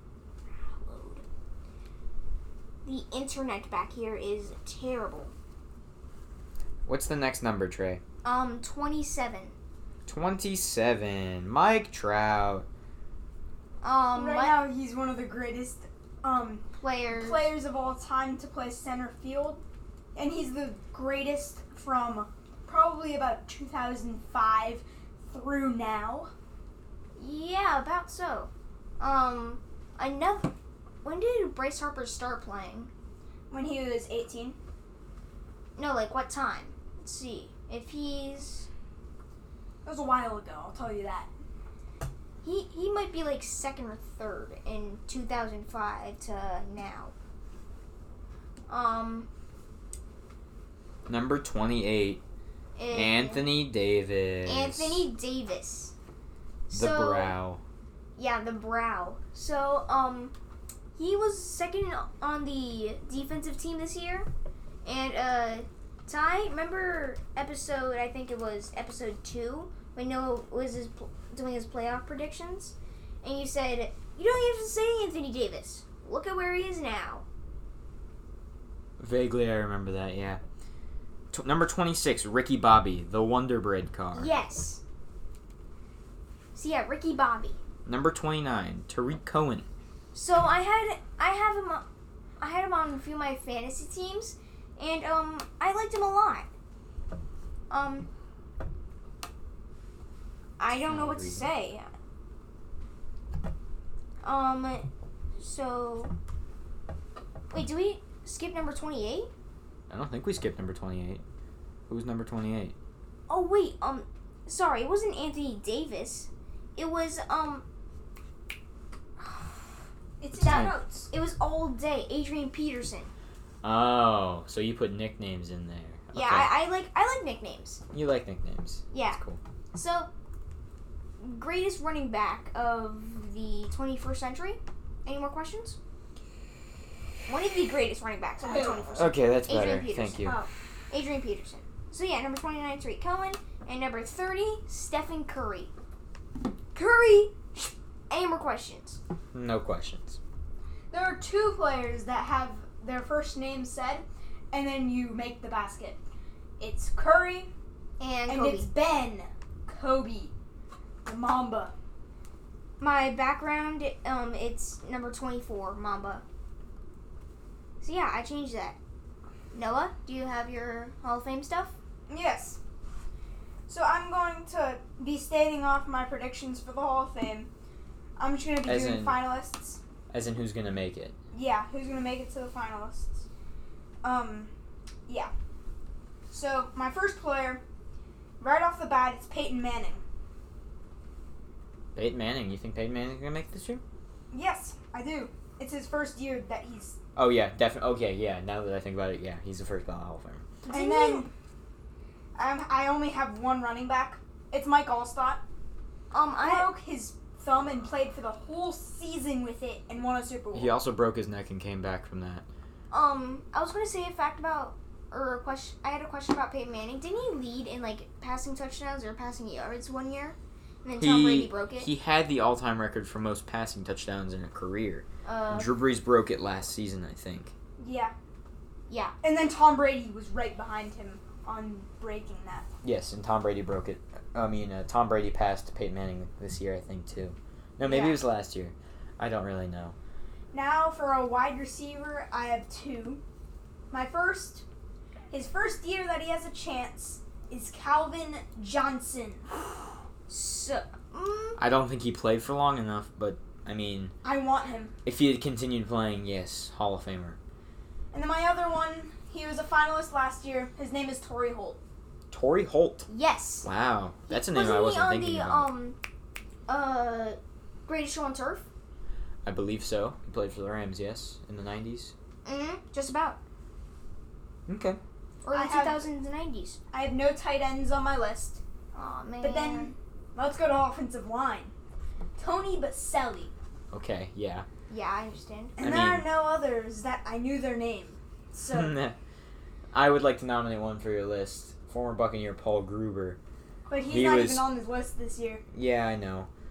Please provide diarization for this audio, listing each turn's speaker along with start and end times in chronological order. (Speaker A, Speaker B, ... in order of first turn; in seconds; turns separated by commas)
Speaker A: 0.6-1.2, Speaker A: 2.9-5.3, Speaker B: 6.9-8.0, Speaker A: 8.2-9.6, Speaker B: 10.1-12.7, Speaker A: 13.8-14.6, Speaker C: 14.1-19.6, Speaker A: 16.8-17.5, Speaker C: 20.1-26.3, Speaker A: 27.2-30.5, Speaker A: 31.0-32.9, Speaker C: 33.5-34.6, Speaker A: 35.8-38.7, Speaker C: 39.9-41.3, Speaker A: 42.4-47.1, Speaker A: 48.7-49.3, Speaker B: 51.1-52.2, Speaker A: 52.8-53.6, Speaker B: 52.9-55.0, Speaker A: 54.5-55.9, Speaker A: 56.7-57.4, Speaker B: 56.7-57.6, Speaker A: 58.2-60.3, Speaker A: 61.0-64.3, Speaker A: 64.8-77.2, Speaker B: 79.0-80.4, Speaker B: 81.3-84.3, Speaker A: 84.1-84.8, Speaker A: 86.5-87.6, Speaker B: 87.9-89.7, Speaker A: 90.1-91.8, Speaker A: 92.4-96.5, Speaker A: 97.7-98.1, Speaker A: 100.6-101.9, Speaker B: 100.7-101.5, Speaker A: 104.2-106.1, Speaker A: 107.5-109.3, Speaker B: 109.9-111.2, Speaker B: 111.9-112.7, Speaker A: 113.3-117.7, Speaker A: 119.2-119.6, Speaker C: 120.2-121.1, Speaker B: 120.4-120.7, Speaker A: 120.4-123.1, Speaker B: 123.6-126.5, Speaker A: 126.1-127.8, Speaker B: 127.9-129.4, Speaker A: 128.9-129.2, Speaker A: 129.7-130.1, Speaker A: 131.2-135.8, Speaker A: 137.3-140.2, Speaker C: 138.4-139.1, Speaker B: 139.0-140.4, Speaker C: 140.2-140.5, Speaker A: 140.9-145.7, Speaker A: 146.7-149.0, Speaker B: 149.3-150.2, Speaker C: 150.9-156.0, Speaker C: 156.6-157.5, Speaker A: 158.0-158.7, Speaker C: 158.3-160.3, Speaker C: 161.1-161.7, Speaker A: 162.8-166.2, Speaker A: 167.8-168.8, Speaker A: 169.5-171.8, Speaker C: 172.1-172.6, Speaker C: 173.7-177.5, Speaker C: 178.2-179.8, Speaker B: 178.7-179.2, Speaker B: 180.1-181.2, Speaker C: 181.3-183.3, Speaker C: 184.0-184.5, Speaker C: 185.1-185.3, Speaker C: 186.3-187.6, Speaker C: 188.4-190.0, Speaker B: 191.9-193.8, Speaker C: 194.3-197.0, Speaker B: 197.2-200.4, Speaker A: 200.6-201.3, Speaker C: 200.7-201.3, Speaker C: 202.3-205.4, Speaker A: 206.1-206.7, Speaker C: 206.4-210.7, Speaker B: 210.5-212.4, Speaker A: 212.9-221.9, Speaker B: 221.0-227.5, Speaker A: 225.2-225.7, Speaker C: 227.8-228.1, Speaker A: 228.9-229.1, Speaker C: 229.2-232.7, Speaker B: 232.8-240.0, Speaker C: 237.8-238.2, Speaker C: 240.5-243.2, Speaker C: 243.9-244.6, Speaker C: 245.3-249.5, Speaker A: 250.3-251.6, Speaker B: 251.6-254.1, Speaker C: 254.2-254.9, Speaker B: 255.1-257.4, Speaker C: 258.1-261.8, Speaker B: 262.3-263.1, Speaker A: 263.1-263.7, Speaker B: 263.6-265.7, Speaker A: 264.3-266.0, Speaker A: 266.7-268.7, Speaker B: 269.4-272.1, Speaker A: 272.4-273.4, Speaker B: 274.7-275.0, Speaker A: 275.4-276.8, Speaker C: 275.5-276.0, Speaker C: 276.9-278.6, Speaker A: 278.9-279.9, Speaker C: 279.4-281.7, Speaker C: 282.4-283.5, Speaker B: 283.9-284.7, Speaker A: 284.9-285.8, Speaker C: 285.8-288.9, Speaker B: 285.8-286.3, Speaker B: 288.7-289.2, Speaker B: 289.9-293.4, Speaker C: 293.9-295.6, Speaker B: 294.1-294.7, Speaker B: 295.7-296.5